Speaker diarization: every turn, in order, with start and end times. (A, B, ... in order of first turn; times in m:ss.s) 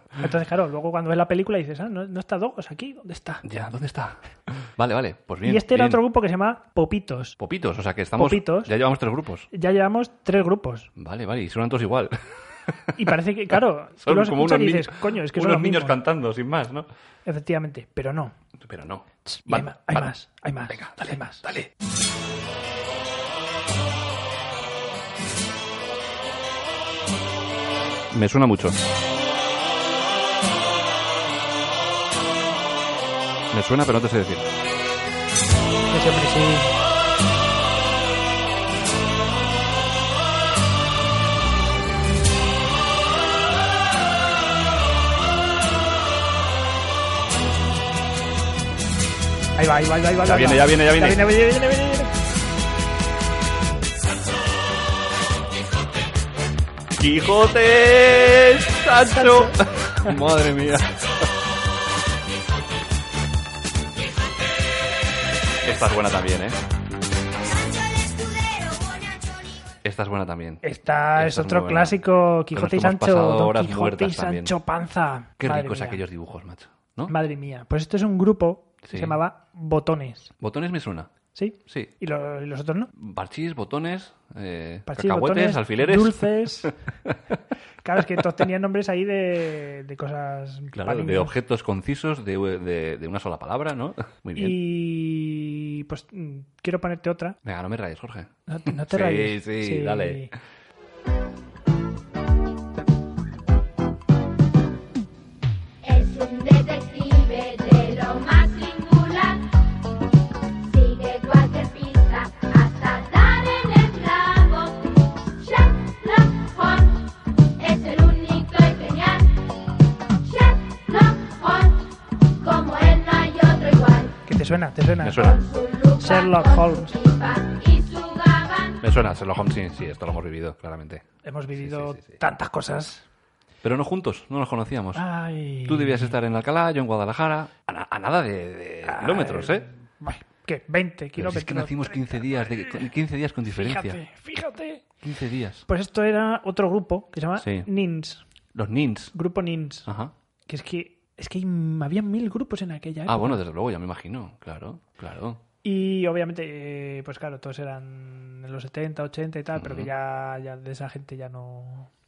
0:00.2-0:03.4 A
0:03.4-0:06.0 B
0:05.4-0:07.4 A
0:07.4-0:09.5 B
0:08.2-0:08.7 A
0:09.5-0:10.9 A
0:11.0-0:12.9 B
0:13.0-0:16.0 A
0:14.0-0:16.8 B
0:17.2-0:18.3 A
0:18.6-0:20.1 B
0:19.2-0:21.5 A
0:20.7-0:21.7 B
0:28.1-0:28.8 B
0:33.5-0:34.5 B
0:35.9-0:36.7 A
0:49.6-0:52.1 A
0:50.2-0:51.2 B
0:57.0-1:01.0 B
0:59.1-0:59.5 A
1:05.6-1:06.6 B
1:09.8-1:10.6 B
1:10.6-1:16.0 A
1:11.2-1:12.0 B
1:12.5-1:14.5 B
1:15.4-1:17.1 B
1:17.1-1:20.3 A
1:18.8-1:19.2 B
1:20.4-1:21.1 B
1:21.3-1:22.9 A
1:23.0-1:27.1 B
1:24.9-1:26.7 A
1:27.8-1:31.3 A
1:30.7-1:34.6 B
1:34.4-1:37.4 A
1:37.4-1:40.3 B
1:38.5-1:40.3 A
1:45.8-1:49.4 C
1:50.6-1:59.3 C
2:00.2-2:04.2 C
2:04.3-2:05.4 A
2:05.0-2:05.4 B
2:05.2-2:08.8 C
2:06.0-2:07.0 A
2:08.8-2:11.0 B
2:11.2-2:13.0 A
2:11.6-2:12.2 B
2:13.6-2:15.0 B
2:14.9-2:16.1 A
2:15.6-2:19.6 B
2:18.8-2:22.9 A
2:21.2-2:24.0 B
2:23.5-2:24.8 A
2:25.0-2:25.6 B
2:25.7-2:28.2 A
2:27.4-2:27.7 B
2:28.5-2:29.1 B
2:29.1-2:29.9 A
2:29.8-2:30.1 B
2:30.5-2:33.4 A
2:33.1-2:35.4 B
2:35.6-2:41.9 A
2:39.6-2:39.9 B